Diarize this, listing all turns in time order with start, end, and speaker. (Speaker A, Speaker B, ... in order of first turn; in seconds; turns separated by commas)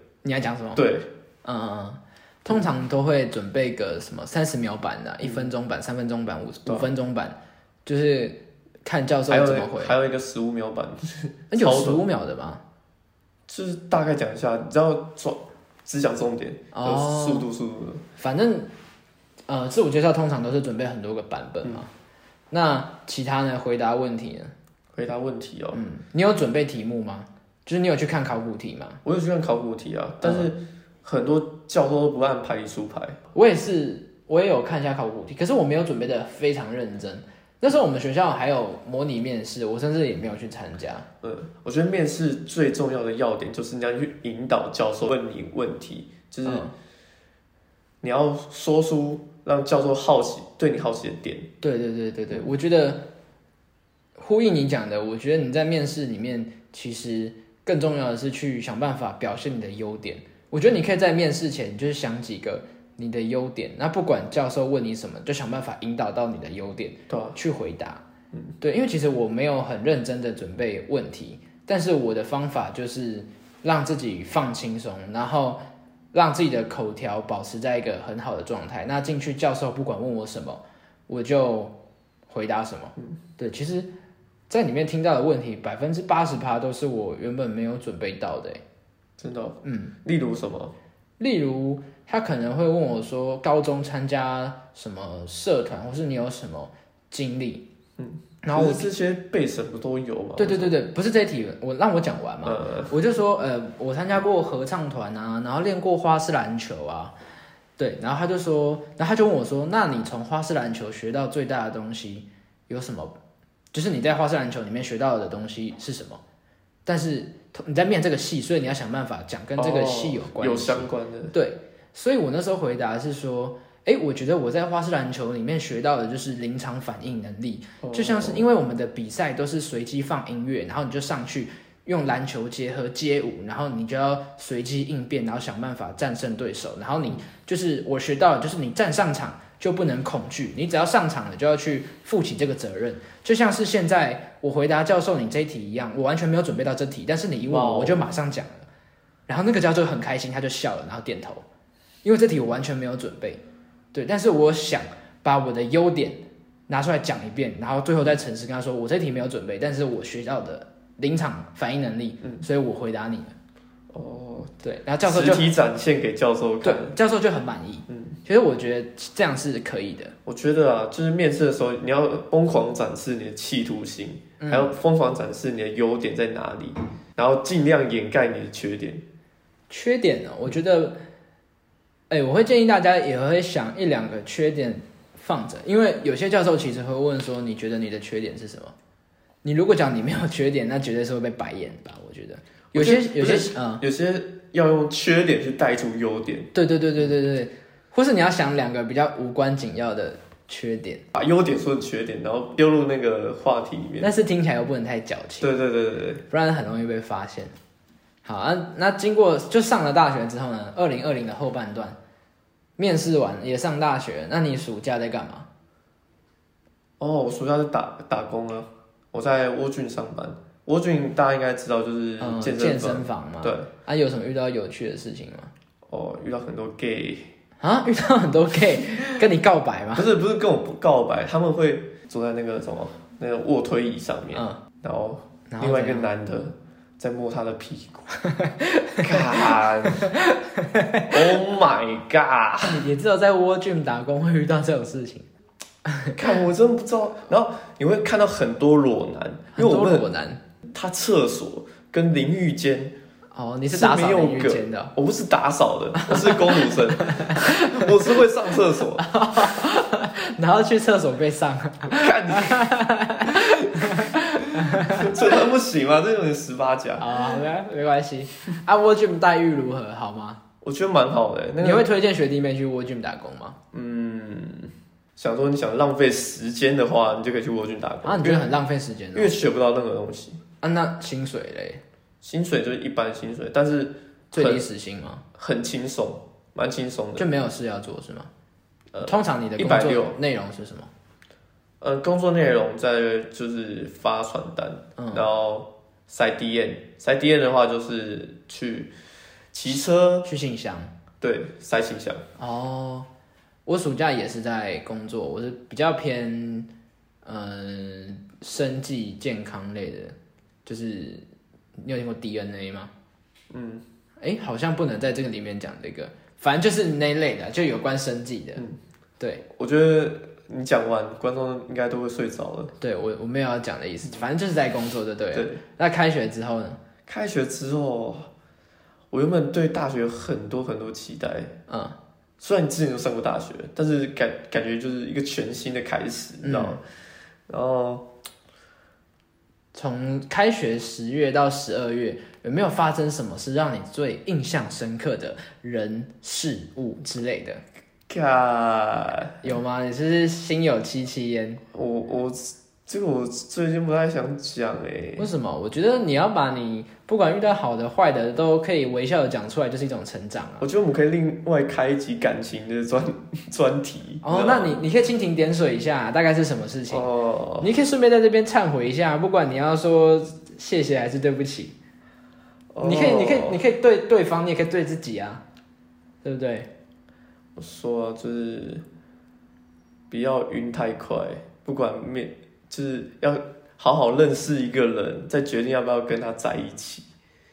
Speaker A: 0.2-0.8, Speaker B: 0.8-1.1, Speaker A: 1.4-9.9, Speaker B: 5.2-5.5, Speaker B: 9.3-12.0, Speaker A: 11.5-12.6, Speaker B: 13.5-18.0, Speaker A: 16.7-17.5, Speaker A: 18.2-18.7, Speaker A: 19.5-21.9, Speaker A: 22.5-24.5, Speaker B: 24.9-25.8, Speaker A: 25.7-29.0, Speaker B: 29.0-33.2, Speaker A: 30.2-30.5, Speaker A: 33.3-41.1, Speaker B: 41.2-46.7, Speaker A: 46.5-46.7, Speaker B: 48.0-51.5, Speaker A: 51.6-53.1, Speaker A: 54.2-68.0, Speaker B: 67.1-67.4, Speaker A: 68.6-75.6, Speaker A: 76.1-81.7, Speaker A: 82.3-83.9, Speaker A: 84.5-88.6, Speaker B: 89.2-90.7, Speaker A: 89.6-89.9, Speaker A: 91.2-97.7, Speaker B: 98.0-100.7, Speaker A: 98.4-98.9, Speaker A: 100.4-107.1, Speaker B: 102.5-102.9, Speaker A: 107.8-113.2, Speaker A: 113.7-116.2, Speaker A: 116.9-148.7, Speaker B: 119.6-121.3, Speaker B: 127.8-128.5, Speaker B: 147.5-148.1, Speaker A: 149.3-151.4, Speaker A: 152.0-153.4, Speaker A: 153.9-163.3, Speaker B: 163.9-166.9, Speaker A: 164.6-165.5, Speaker A: 166.6-170.2, Speaker B: 167.9-168.2, Speaker B: 170.3-179.1, Speaker A: 174.4-174.7, Speaker A: 179.7-181.0, Speaker A: 182.1-188.7, Speaker A: 189.4-193.8, Speaker B: 192.7-196.5, Speaker A: 196.5-201.0, Speaker B: 201.1-204.1, Speaker A: 204.0-205.5, Speaker B: 205.4-206.2, Speaker A: 206.3-207.5, Speaker A: 208.2-212.0, Speaker A: 212.8-215.5, Speaker B: 217.0-223.7, Speaker A: 222.2-225.5, Speaker B: 225.9-227.3, Speaker A: 227.6-230.1, Speaker B: 229.9-238.1, Speaker A: 234.3-234.6, Speaker A: 235.5-236.1, Speaker A: 238.2-241.3, Speaker B: 239.0-240.1, Speaker B: 241.1-242.8, Speaker A: 242.6-245.3, Speaker A: 245.9-246.2, Speaker B: 246.2-250.1, Speaker A: 249.6-250.4, Speaker B: 250.7-252.9, Speaker A: 253.3-254.9, Speaker B: 253.7-259.1, Speaker A: 256.0-257.9, Speaker A: 259.0-265.3, Speaker B: 261.9-262.7, Speaker B: 264.9-267.1, Speaker A: 267.0-270.4, Speaker B: 270.6-271.9, Speaker A: 271.6-273.6, Speaker B: 273.7-278.5, Speaker A: 278.1-279.4, Speaker B: 279.1-280.4, Speaker A: 280.6-281.8, Speaker B: 282.2-284.6, Speaker A: 284.3-285.2, Speaker B: 285.4-287.3, Speaker A: 287.2-288.3, Speaker B: 288.9-290.1, Speaker A: 289.1-290.9, Speaker B: 291.8-298.9, Speaker A: 295.0-295.3, Speaker B: 299.5-300.3, Speaker A: 300.2-300.9, Speaker B: 301.2-302.2, Speaker A: 302.4-303.1, Speaker A: 303.7-306.7, Speaker A: 307.2-310.1, Speaker A: 310.7-311.2, Speaker A: 311.8-312.9, Speaker B: 313.5-313.8, Speaker A: 314.2-318.6, Speaker B: 319.5-322.7, Speaker A: 322.8-326.8, Speaker B: 325.3-325.6, Speaker B: 327.1-328.3, Speaker B: 329.1-331.5, Speaker A: 331.7-332.0, Speaker B: 332.4-336.8, Speaker A: 336.4-336.8, Speaker B: 337.5-338.1, Speaker A: 339.7-347.6, Speaker B: 348.1-349.4, Speaker A: 349.4-351.6, Speaker B: 351.7-355.3, Speaker A: 355.2-360.7, Speaker B: 360.6-364.8, Speaker A: 364.2-367.1, Speaker B: 366.9-367.7, Speaker A: 367.6-371.8, Speaker B: 372.7-373.6, Speaker A: 372.8-375.4, Speaker A: 376.2-376.7, Speaker B: 377.6-378.8, Speaker B: 380.1-387.1